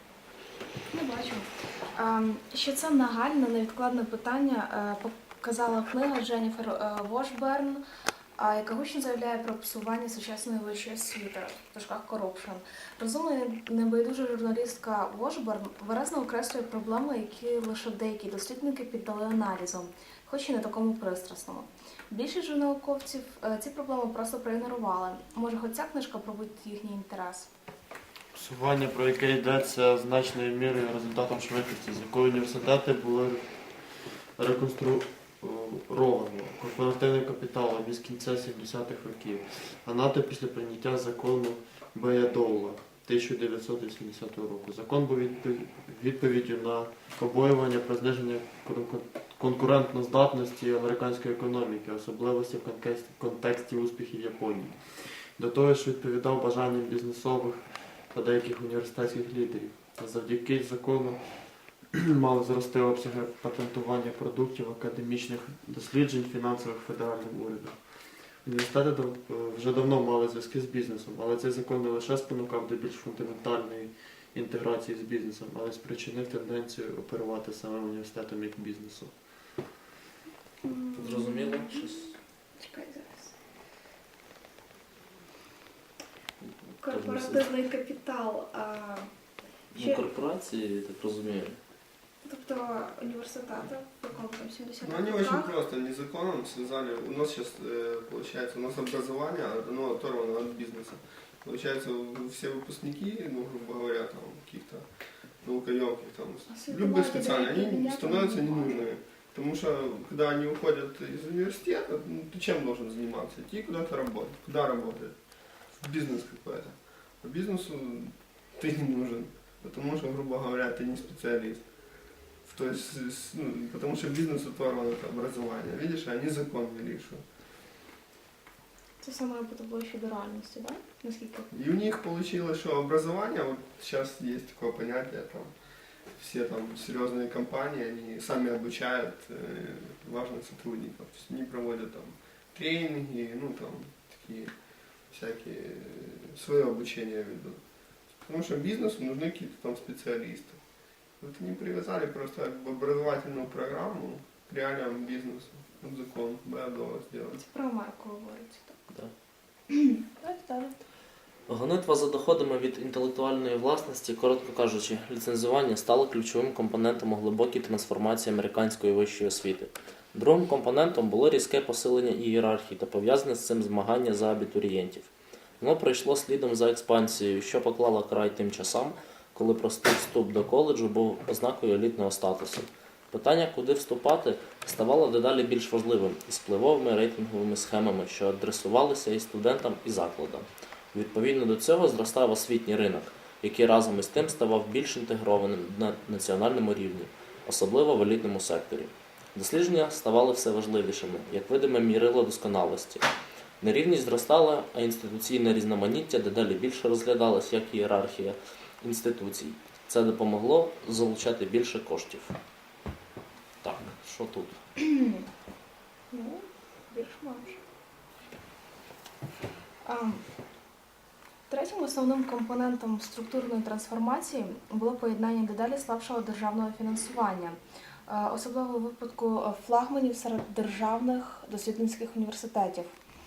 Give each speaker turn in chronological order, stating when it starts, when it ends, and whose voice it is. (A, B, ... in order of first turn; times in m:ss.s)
0:00.9-0:07.8 A
0:08.4-0:27.5 A
0:28.3-0:33.4 B
0:34.4-0:54.8 B
0:55.4-1:01.2 B
1:01.9-1:07.8 B
1:08.4-1:19.1 B
1:20.6-1:23.3 A
1:21.0-1:22.1 C
1:26.8-1:29.1 A
1:26.8-1:27.5 C
1:29.7-1:31.6 C
1:29.8-1:30.0 A
1:32.2-1:35.6 A
1:34.8-1:44.8 D
1:45.4-1:55.1 D
1:46.5-1:48.9 A
1:55.8-2:01.6 D
2:02.4-2:07.2 D
2:09.0-2:11.5 A
2:11.5-2:15.5 D
2:16.2-2:24.5 D
2:25.1-2:27.6 D
2:28.2-2:30.6 D
2:31.2-2:37.4 D
2:37.3-2:38.8 A
2:39.7-2:40.8 A
2:41.5-3:23.1 C
3:23.6-3:32.4 C
3:33.6-3:34.6 C
3:34.8-3:35.3 A
3:36.1-3:37.6 A
3:39.8-3:40.2 A
3:41.5-3:52.9 A